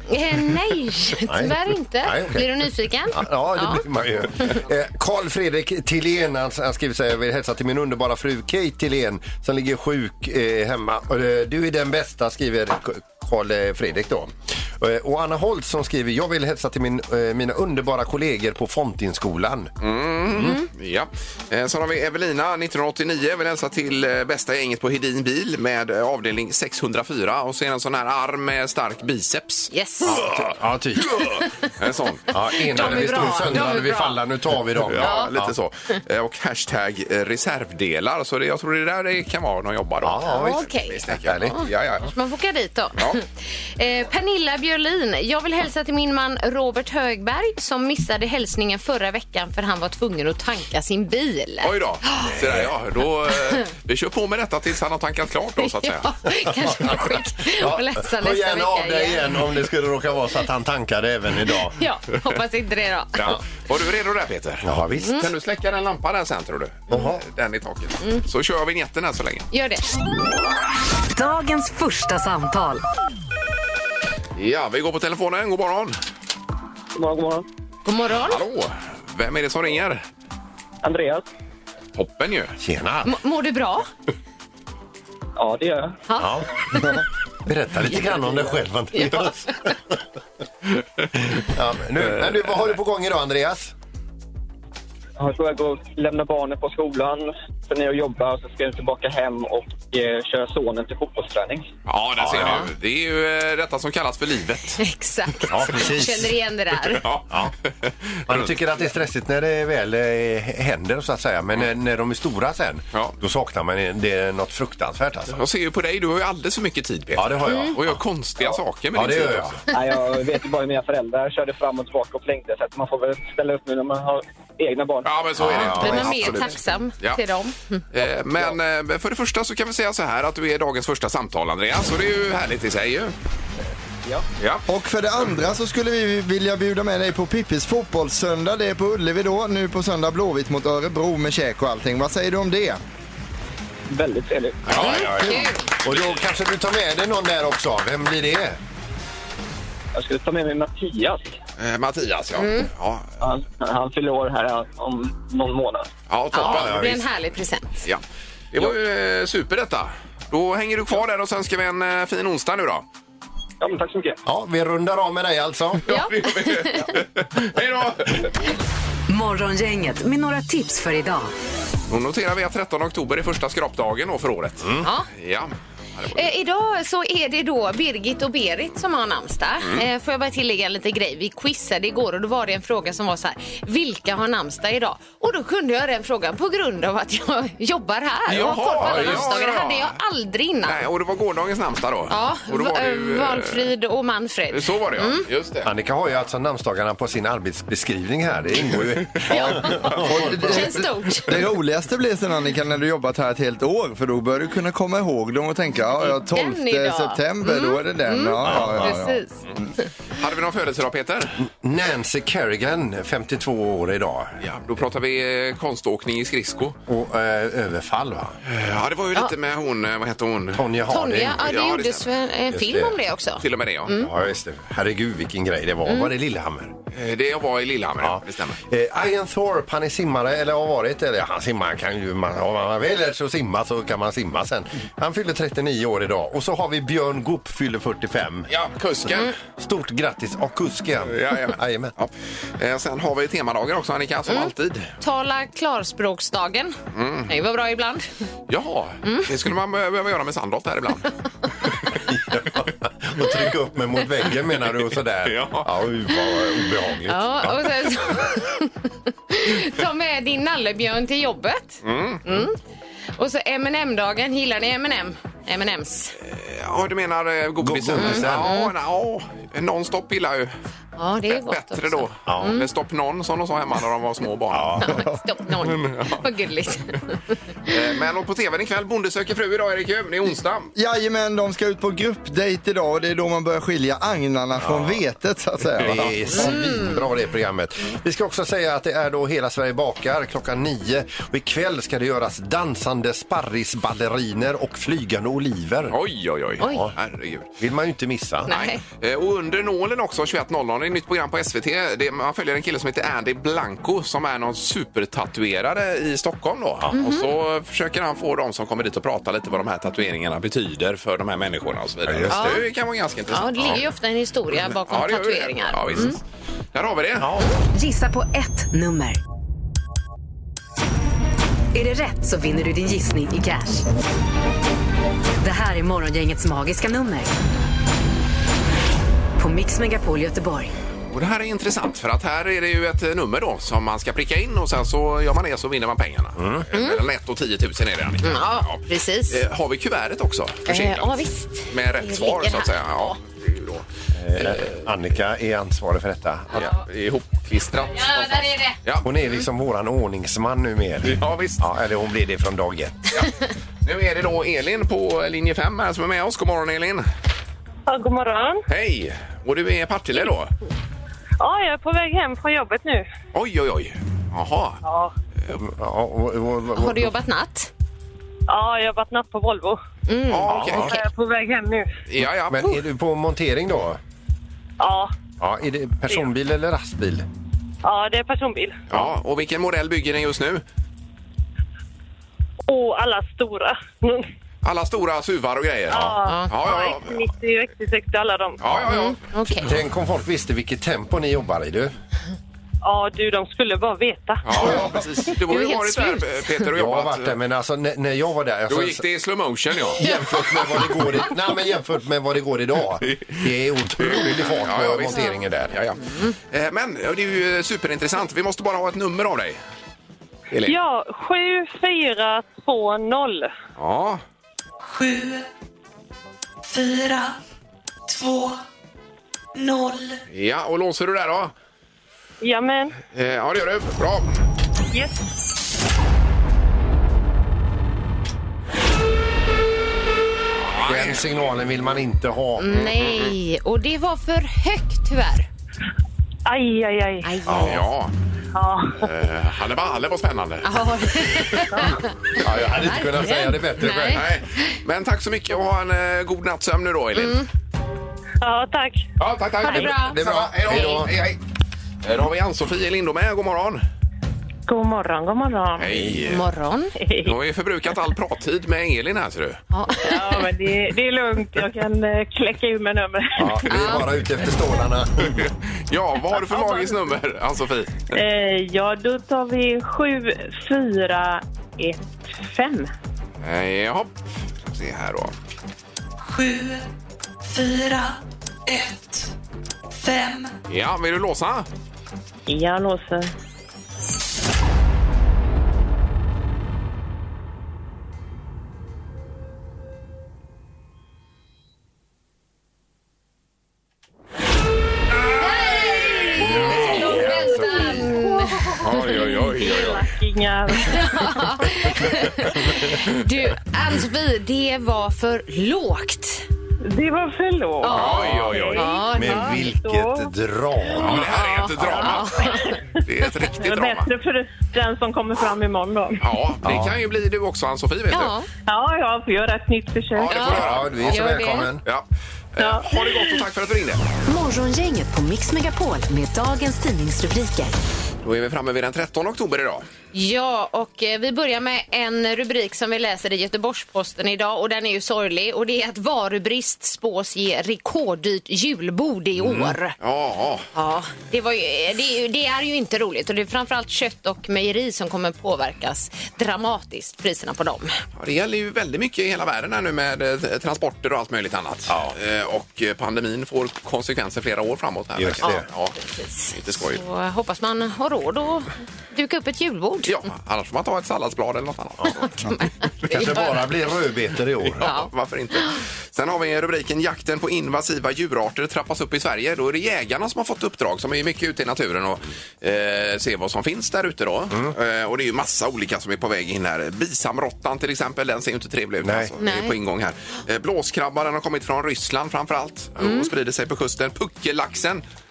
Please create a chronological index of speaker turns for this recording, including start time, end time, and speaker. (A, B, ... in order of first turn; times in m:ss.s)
0:00.1-0:03.8 A
0:01.3-0:19.7 B
0:19.8-0:32.2 C
0:29.7-0:30.3 A
0:30.0-0:31.2 B
0:31.4-0:31.7 A
0:32.3-0:35.5 B
0:32.6-0:34.2 A
0:32.8-0:33.6 C
0:34.8-0:42.1 C
0:35.0-0:35.3 A
0:40.0-0:41.6 B
0:40.3-0:43.2 A
0:43.8-0:52.3 A
0:51.6-0:56.1 C
0:52.2-0:52.7 B
0:55.6-0:59.3 A
0:56.6-1:01.8 B
1:01.8-1:03.2 A
1:03.2-1:09.5 C
1:04.6-1:05.2 B
1:06.9-1:07.2 B
1:09.5-1:09.9 A
1:11.1-1:12.8 D
1:14.4-1:16.0 C
1:17.0-1:17.4 E
1:17.8-1:18.4 A
1:18.1-1:20.0 C
1:20.8-1:21.2 E
1:22.0-1:22.6 C
1:22.6-1:23.1 B
1:23.0-1:23.9 A
1:25.4-1:26.0 E
1:26.1-1:27.0 A
1:26.2-1:30.0 B
1:29.0-1:29.2 A
1:31.3-1:33.7 B
1:35.2-1:41.7 E
1:41.9-1:44.8 C
1:42.2-1:42.7 B
1:44.8-1:47.0 A
1:45.5-1:46.3 B
1:46.9-1:48.6 C
1:48.3-1:55.4 B
1:55.3-1:59.6 C
1:57.2-1:58.0 B
1:57.4-1:57.8 A
1:58.9-1:59.6 B
1:59.7-2:05.1 E
2:05.0-2:07.2 C
2:05.4-2:06.4 B
2:05.7-2:07.8 A
2:07.9-2:13.1 C
2:14.4-2:14.6 C
2:14.7-2:22.8 F
2:23.9-2:24.8 E
2:24.7-2:28.6 B
2:24.7-2:25.1 C
2:24.7-2:25.7 A
2:29.9-2:31.4 E
2:31.6-2:33.1 C
2:32.4-2:32.7 A
2:33.2-2:35.9 E
2:36.1-2:37.0 C
2:36.3-2:37.8 A
2:36.4-2:37.0 B
2:38.5-2:42.8 C
2:43.6-2:44.2 E
2:44.2-2:45.8 B
2:45.9-2:47.0 A
2:45.9-2:48.3 C
2:49.1-2:51.3 D
2:51.9-2:56.3 C
2:54.8-2:55.1 A
2:56.1-3:10.8 A
2:59.6-2:59.9 C
3:08.3-3:10.0 C
3:08.8-3:09.2 B
3:10.6-3:13.7 C
3:12.1-3:15.2 A
3:14.5-3:15.7 C
3:15.6-3:20.8 B
3:19.3-3:21.4 A
3:20.0-3:29.2 F
3:26.0-3:29.8 A
3:28.4-3:29.0 B
3:30.1-3:31.4 C
3:31.4-3:34.4 B
3:34.4-3:36.8 C
3:36.9-3:38.4 B
3:38.4-3:40.6 C
3:40.5-3:41.4 B
3:40.9-3:44.1 A
3:41.4-3:42.1 C
3:42.5-3:43.0 B
3:43.4-3:44.0 C
3:43.9-3:46.8 B
3:45.9-3:46.1 A
3:46.9-3:48.6 C
3:48.0-3:58.5 B
3:58.5-3:59.3 C
3:59.4-4:01.9 B
4:01.1-4:04.9 C
4:04.3-4:06.8 A
4:06.9-4:07.3 C
4:07.3-4:08.1 A
4:08.5-4:11.1 C
4:12.0-4:17.9 B
4:15.2-4:15.7 C
4:17.1-4:22.6 A
4:21.8-4:22.4 C
4:23.2-4:26.2 A
4:26.2-4:30.5 C
4:27.6-4:28.6 B
4:28.0-4:28.7 A
4:31.0-4:32.7 A
4:31.3-4:34.9 C
4:32.3-4:32.6 B
4:34.5-4:35.0 B
4:34.8-4:37.7 A
4:35.6-4:36.2 C
4:37.7-4:40.7 C
4:40.8-4:46.5 F
4:44.6-4:45.0 B
4:45.8-4:56.0 B
4:46.3-4:47.0 A
4:55.9-4:57.5 C
4:56.6-4:56.9 B
4:57.6-4:58.6 B
4:58.5-4:58.8 A
4:58.5-5:13.8 C
5:06.9-5:07.3 A
5:12.0-5:12.6 B
5:12.3-5:12.6 A
5:13.3-5:16.2 A
5:14.6-5:16.2 C
5:16.7-5:17.3 C
5:17.2-5:17.5 B
5:17.7-5:19.2 D
5:21.7-5:23.8 D
5:25.4-5:27.3 D
5:29.4-5:30.7 D
5:31.1-5:43.9 C
5:36.4-5:36.6 B
5:36.7-5:37.0 A
5:38.2-5:39.4 A
5:40.7-5:43.2 A
5:44.1-5:46.7 B
5:44.4-5:44.8 C
5:46.5-5:49.1 C
5:47.9-5:48.8 A
5:49.0-5:53.1 B
5:51.0-5:51.6 C
5:53.8-5:57.0 C
5:57.9-5:58.6 G
5:58.7-6:00.5 C
6:01.4-6:03.1 G
6:03.3-6:04.8 C
6:04.8-6:05.1 G
6:05.6-6:07.1 B
6:06.8-6:07.7 A
6:08.5-6:09.8 G
6:10.1-6:10.5 A
6:10.3-6:11.0 C
6:10.5-6:10.9 B
6:10.8-6:11.9 G
6:12.1-6:12.8 C
6:12.5-6:14.0 B
6:14.8-6:15.1 G
6:15.4-6:17.2 B
6:17.8-6:18.8 G
6:18.9-6:20.6 C
6:22.7-6:24.3 G
6:24.6-6:27.3 C
6:25.9-6:28.6 G
6:26.2-6:26.5 A
6:28.6-6:29.2 C
6:28.9-6:29.7 A
6:29.5-6:31.9 B
6:32.8-6:34.8 G
6:34.4-6:37.4 C
6:34.6-6:34.9 A
6:35.5-6:36.5 A
6:36.7-6:39.0 B
6:38.7-6:40.0 C
6:40.0-6:45.8 B
6:40.0-6:40.2 A
6:43.0-6:43.4 C
6:44.0-6:49.6 C
6:50.5-6:50.8 C
6:50.6-6:53.5 G
6:53.8-6:54.2 C
6:54.8-6:55.5 H
6:56.6-6:57.4 H
6:58.1-6:58.6 H
6:59.5-7:00.2 H
7:00.3-7:01.5 C
7:02.4-7:03.0 G
7:03.0-7:04.4 C
7:10.6-7:11.2 C
7:10.9-7:12.8 B
7:12.6-7:15.5 A
7:12.7-7:13.3 C
7:16.5-7:17.4 G
7:17.2-7:17.8 A
7:17.5-7:17.8 B
7:17.5-7:18.1 C
7:18.5-7:19.0 G
7:19.0-7:21.6 C
7:20.6-7:24.7 A
7:21.7-7:22.0 G
7:22.4-7:24.3 B
7:22.4-7:22.7 C
7:24.1-7:27.4 C
7:27.1-7:27.5 A
7:28.4-7:29.0 G
7:29.2-7:31.4 C
7:29.6-7:29.9 G
7:29.6-7:31.0 A
7:30.0-7:31.2 B
7:32.0-7:33.8 C
7:34.7-7:35.9 G
7:35.8-7:36.5 C
7:35.9-7:36.2 B
7:36.2-7:36.9 A
7:37.0-7:37.4 G
7:37.2-7:39.6 C
7:39.7-7:40.5 A
7:40.0-7:43.9 G
7:43.4-7:45.4 B
7:43.6-7:44.0 A
7:45.2-7:48.2 C
7:48.1-7:52.9 G
7:53.4-7:54.1 C
7:54.6-7:55.3 C
7:56.2-7:56.9 H
7:57.4-7:59.3 H
7:59.9-8:00.5 H
8:00.7-8:01.7 C
8:02.5-8:03.3 G
8:15.4-8:18.9 A
8:16.4-8:21.1 G
8:16.5-8:17.9 B
8:18.8-8:20.1 C
8:20.8-8:26.4 A
8:26.9-8:30.3 G
8:27.8-8:29.7 A
8:27.9-8:28.8 C
8:29.1-8:31.2 B
8:31.0-8:34.1 C
8:31.2-8:32.7 A
8:33.5-8:36.3 G
8:36.2-8:38.3 C
8:36.6-8:36.9 B
8:38.1-8:38.5 A
8:38.7-8:40.6 G
8:40.1-8:41.3 C
8:40.3-8:41.7 A
8:40.5-8:41.8 B
8:41.8-8:44.0 C
8:42.6-8:43.4 G
8:44.2-8:47.8 D
8:48.2-8:49.9 C
8:50.1-9:00.0 A
8:59.4-9:00.6 C
9:00.8-9:08.0 A
9:08.2-9:15.9 C
9:11.9-9:12.2 B
9:15.2-9:15.6 B
9:15.4-9:20.2 A
9:16.5-9:17.0 C
9:20.0-9:22.3 C
9:22.1-9:23.6 A
9:23.1-9:24.8 B
9:24.8-9:45.0 C
9:24.8-9:25.8 A
9:39.0-9:39.3 B
9:39.4-9:39.8 A
9:43.0-9:43.3 A